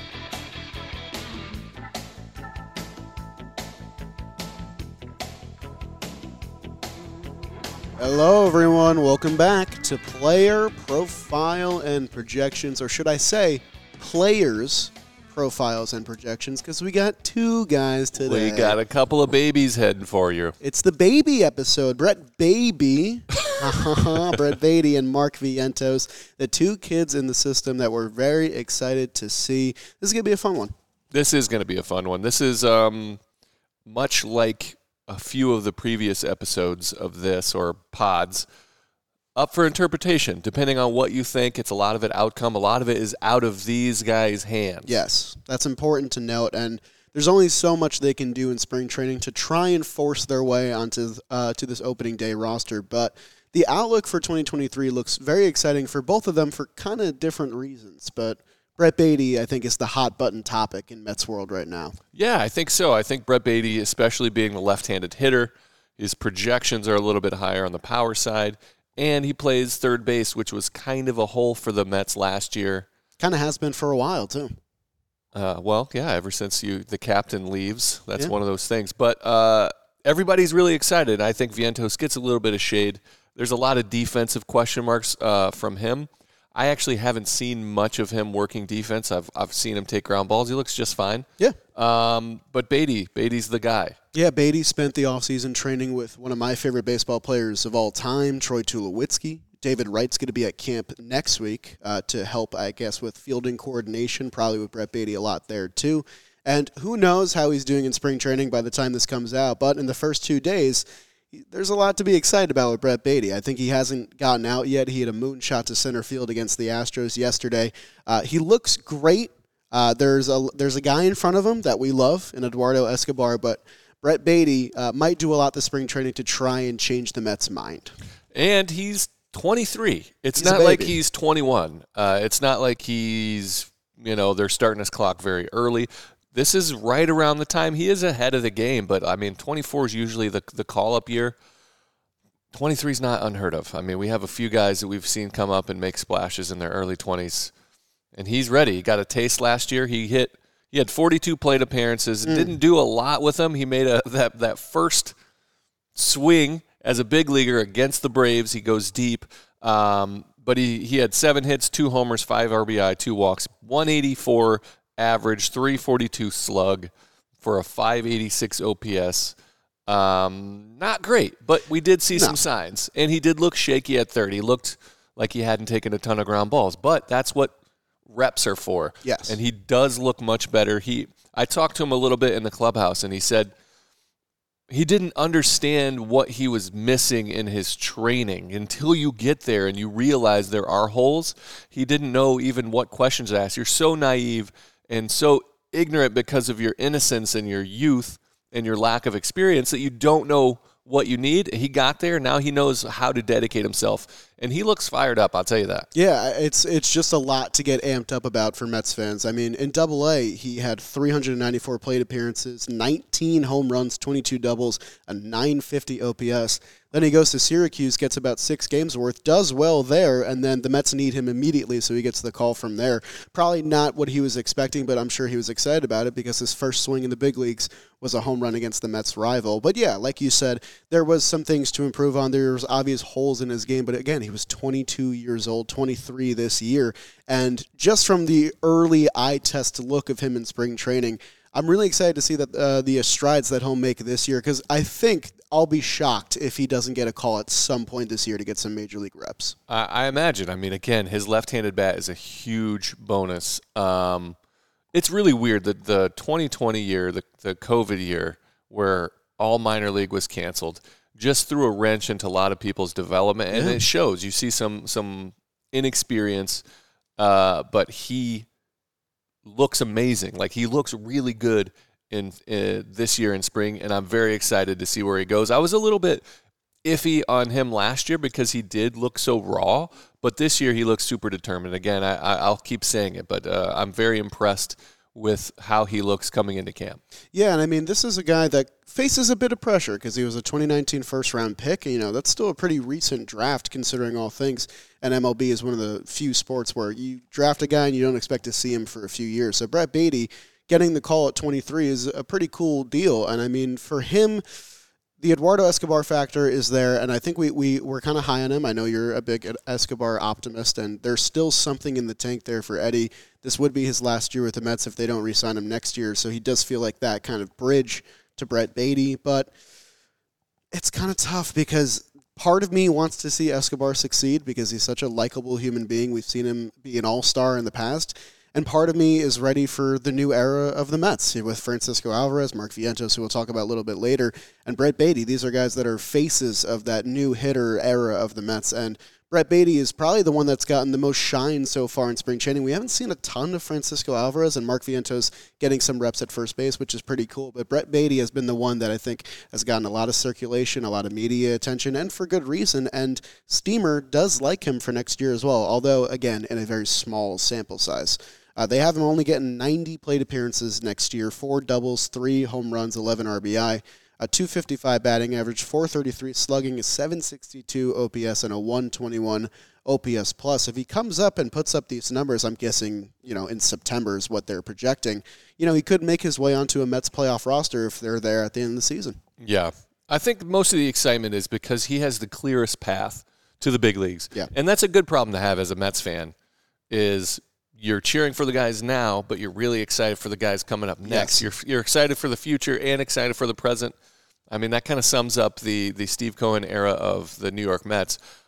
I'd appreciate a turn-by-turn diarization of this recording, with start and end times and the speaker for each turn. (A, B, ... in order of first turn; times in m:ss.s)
0:08.0-0:18.8 A
0:18.2-0:20.5 B
0:20.6-0:30.7 A
0:31.1-0:33.2 B
0:33.8-0:38.4 B
0:39.4-0:44.9 B
0:44.8-1:02.0 A
1:02.1-1:12.8 B
1:13.2-1:14.5 A
1:15.3-1:34.0 B
1:34.1-2:07.9 A
2:08.3-2:21.3 B
2:10.4-2:11.0 A
2:22.5-2:27.5 B
2:28.1-2:35.1 B
2:32.2-2:32.5 A
2:35.9-2:46.9 B
2:47.4-2:49.3 B
2:49.9-2:57.6 B
2:58.1-3:03.5 B
2:59.0-2:59.4 A
3:04.7-3:25.9 B
3:25.9-4:09.5 A
4:09.7-4:14.4 B
4:14.9-4:26.6 B
4:23.5-4:23.8 A
4:27.2-4:28.5 B
4:29.4-4:36.2 B
4:36.8-4:47.0 B
4:47.3-5:04.4 A
5:05.2-5:19.5 A
5:20.7-6:19.2 A
6:19.4-6:26.3 B
6:26.9-6:33.9 B
6:31.0-6:31.4 A
6:34.5-6:38.2 B